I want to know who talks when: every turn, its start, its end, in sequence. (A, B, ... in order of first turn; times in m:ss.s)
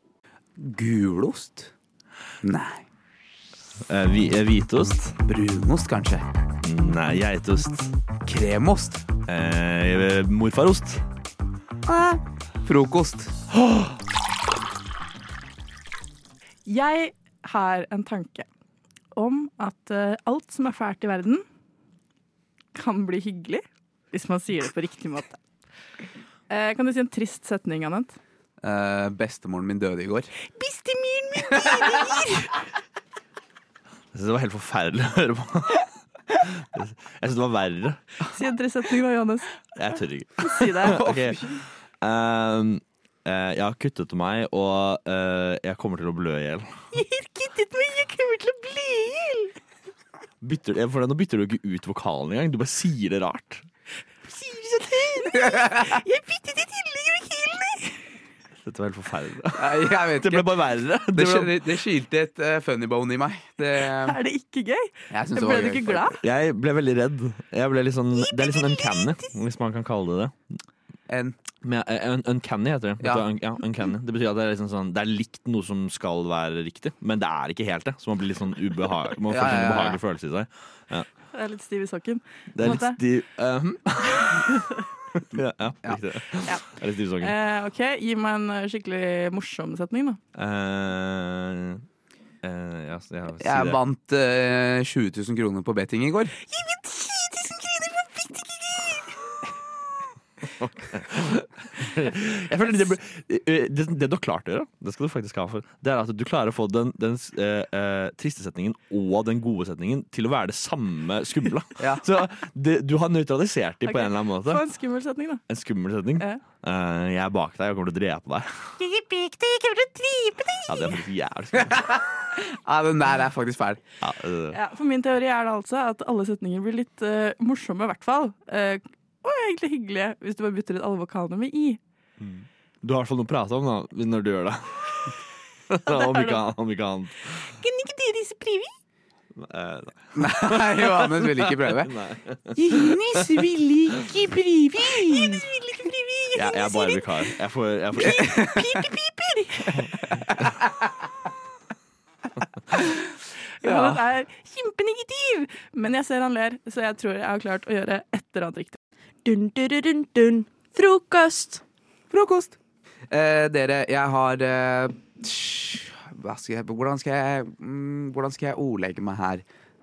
0:00.6-0:01.7 A
0:02.4-0:02.8 A
0:03.9-0:05.2 B
0:05.2-0:06.2 A
0:06.6-0:07.9 B
0:08.2-0:09.1 A
0:09.2-0:11.0 B
0:11.9-0:13.3 A
0:16.6-0:18.5 C
0:19.1-0:21.4 C
0:22.7-0:25.4 C
0:26.5-0:28.2 C
0:28.6-0:30.3 A
0:30.4-0:32.5 C
0:34.1-0:35.8 B
0:36.5-0:38.0 B
0:38.3-0:39.5 C
0:39.8-0:46.8 B
0:40.4-0:41.4 C
0:46.9-0:49.5 C
0:50.4-0:53.7 B
0:54.3-0:58.0 C
0:55.4-0:55.9 A
0:58.6-1:01.7 B
0:59.6-1:00.5 A
1:01.1-1:04.2 A
1:03.8-1:06.2 C
1:05.1-1:06.0 A
1:06.1-1:10.3 B
1:08.3-1:09.3 C
1:11.1-1:11.4 A
1:11.6-1:21.1 B
1:19.3-1:20.0 A
1:21.3-1:23.0 C
1:22.5-1:24.4 B
1:24.5-1:24.8 C
1:25.3-1:27.4 B
1:27.2-1:30.2 C
1:30.3-1:31.8 B
1:32.4-1:33.8 B
1:33.4-1:36.3 A
1:36.5-1:38.8 C
1:40.6-1:54.7 B
1:51.8-1:52.0 A
1:53.8-1:55.4 C
1:55.5-1:58.7 B
1:58.9-2:00.9 C
2:00.6-2:01.8 B
2:01.6-2:01.9 A
2:02.6-2:03.8 A
2:04.0-2:04.6 B
2:04.5-2:11.8 C
2:12.2-2:14.9 B
2:15.7-2:17.5 B
2:15.9-2:16.4 C
2:17.6-2:18.7 C
2:19.4-2:24.0 B
2:20.1-2:21.9 A
2:22.6-2:27.1 C
2:26.3-2:28.4 B
2:27.9-2:29.7 C
2:28.2-2:28.8 A
2:33.6-2:38.8 C
2:33.6-2:34.0 A
2:39.2-2:41.6 D
2:43.1-2:49.4 A